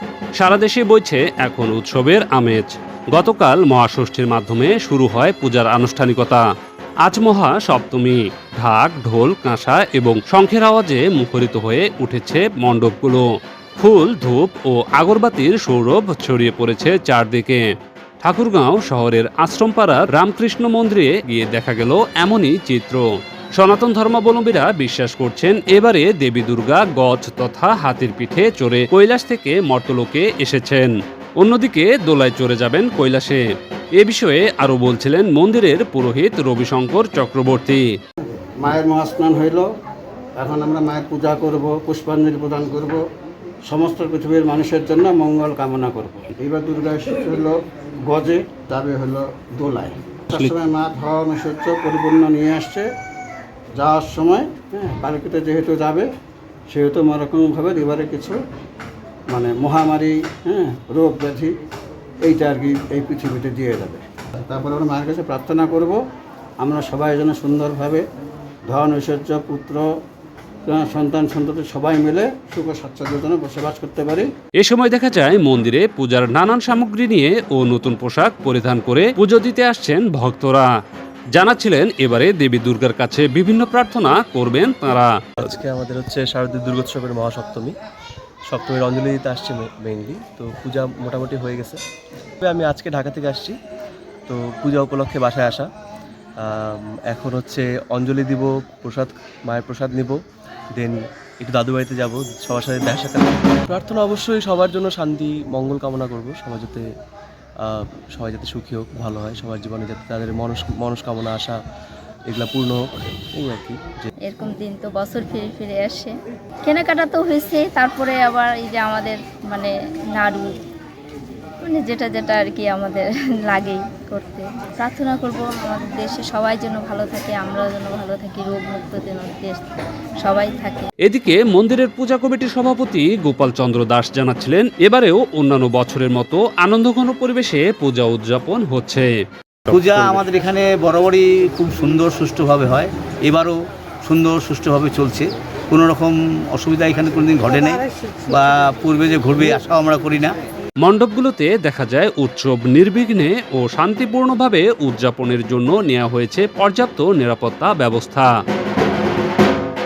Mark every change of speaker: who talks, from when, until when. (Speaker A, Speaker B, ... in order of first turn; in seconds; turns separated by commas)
Speaker A: 0.3-6.4, Speaker A: 7.0-13.2, Speaker A: 13.8-17.7, Speaker A: 18.2-33.4, Speaker A: 34.0-37.9, Speaker B: 38.6-39.7, Speaker B: 40.4-43.0, Speaker B: 43.6-52.9, Speaker A: 50.3-50.6, Speaker B: 53.7-56.1, Speaker B: 56.7-58.4, Speaker B: 59.3-61.5, Speaker B: 62.2-66.0, Speaker B: 66.6-68.0, Speaker B: 68.7-69.8, Speaker B: 70.7-74.3, Speaker A: 74.6-80.7, Speaker A: 81.3-85.4, Speaker C: 85.4-87.7, Speaker C: 88.5-91.8, Speaker C: 92.4-93.6, Speaker C: 94.3-95.7, Speaker C: 96.4-100.2, Speaker C: 100.8-106.8, Speaker C: 107.6-111.5, Speaker C: 112.3-112.8, Speaker C: 113.3-114.1, Speaker D: 114.3-116.1, Speaker D: 116.6-120.5, Speaker D: 121.6-129.7, Speaker D: 130.2-130.9, Speaker A: 131.0-139.1, Speaker A: 139.7-140.2, Speaker E: 139.7-150.3, Speaker A: 150.8-158.3